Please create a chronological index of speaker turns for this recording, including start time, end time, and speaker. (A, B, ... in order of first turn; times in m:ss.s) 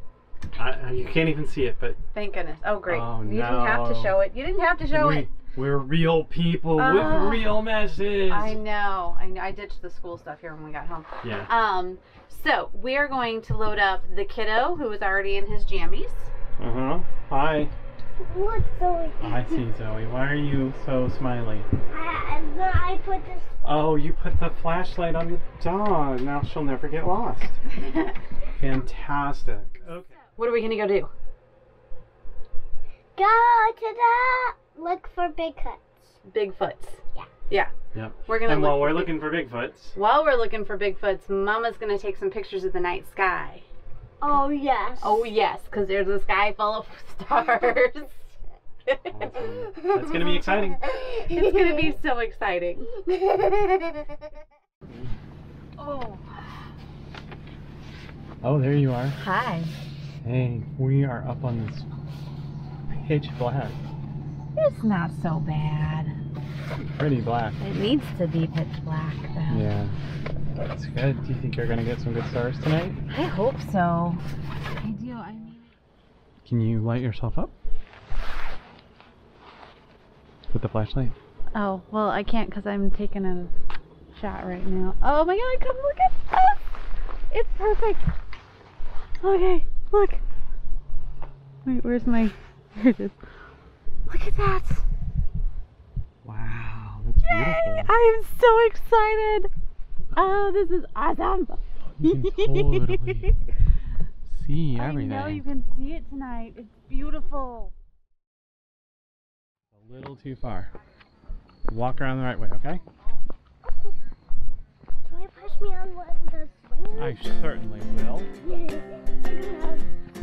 0:00.5-0:02.0 A
0:02.1-0:05.3 B
0:02.9-0:04.2 A
0:04.9-0:08.6 A
0:06.8-0:07.6 B
0:08.3-0:16.3 B
0:11.2-0:11.5 A
0:16.6-0:17.7 A
0:18.2-0:19.3 C
0:19.2-0:21.7 A
0:21.9-0:23.8 C
0:23.6-0:27.6 A
0:28.5-0:30.2 A
0:30.4-0:31.1 B
0:33.2-0:35.8 C
0:36.2-0:37.7 B
0:37.9-0:40.0 A
0:38.2-0:39.3 B
0:39.9-0:43.6 B
0:44.2-0:45.2 C
0:45.0-0:48.3 B
0:48.8-0:49.2 B
0:49.1-0:50.8 A
0:51.0-0:51.9 C
0:51.1-0:53.0 B
0:53.1-0:53.7 C
0:55.8-0:56.4 B
0:58.4-0:59.2 A
0:59.1-0:59.7 B
1:00.2-1:01.9 A
1:02.9-1:03.8 A
1:04.6-1:06.1 B
1:06.8-1:07.6 A
1:07.6-1:09.7 B
1:09.5-1:10.0 A
1:10.6-1:13.0 A
1:13.1-1:14.2 B
1:14.8-1:15.7 B
1:16.4-1:17.5 A
1:20.5-1:21.2 A
1:21.5-1:23.5 B
1:24.1-1:26.8 B
1:27.3-1:28.1 B
1:29.2-1:30.2 B
1:31.6-1:33.2 B
1:34.1-1:34.8 B
1:36.2-1:37.9 A
1:37.2-1:39.5 B
1:40.1-1:43.2 B
1:42.0-1:43.3 A
1:44.2-1:45.4 A
1:44.7-1:47.7 B
1:49.7-1:50.7 A
1:51.7-1:52.8 A
1:55.0-1:57.2 C
1:57.0-1:58.3 A
1:58.4-1:59.8 C